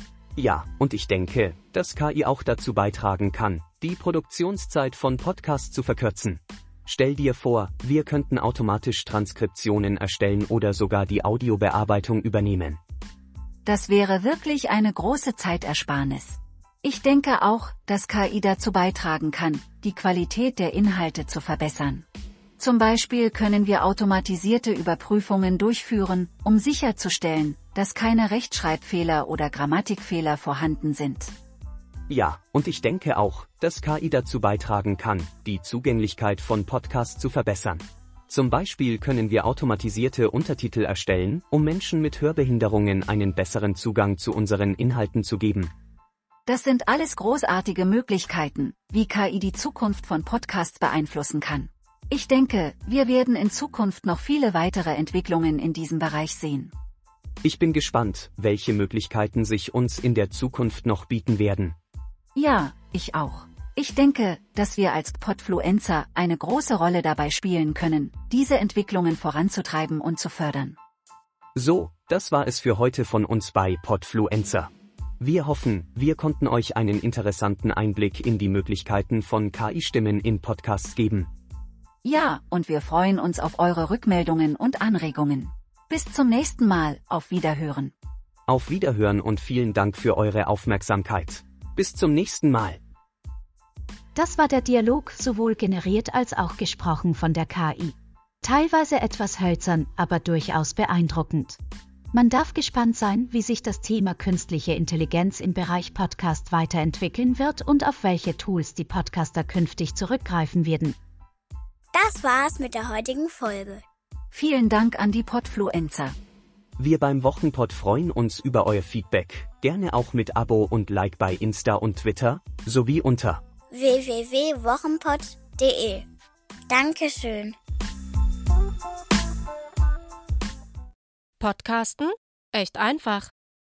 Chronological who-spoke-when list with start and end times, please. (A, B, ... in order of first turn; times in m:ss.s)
0:00.4-0:12.8 A
0:13.6-0:22.1 B
0:22.6-0:31.4 B
0:32.1-0:45.7 A
0:46.5-0:56.7 B
0:57.4-1:01.8 A
1:02.4-1:10.8 B
1:11.6-1:14.7 A
1:15.2-1:21.3 A
1:22.0-1:27.9 B
1:28.5-1:32.8 A
1:34.2-1:41.6 C
1:42.1-1:51.0 C
1:52.0-1:53.8 D
1:54.3-1:56.2 B
1:56.8-2:03.4 A
2:03.7-2:06.0 D
2:06.7-2:07.6 D
2:11.4-2:13.3 E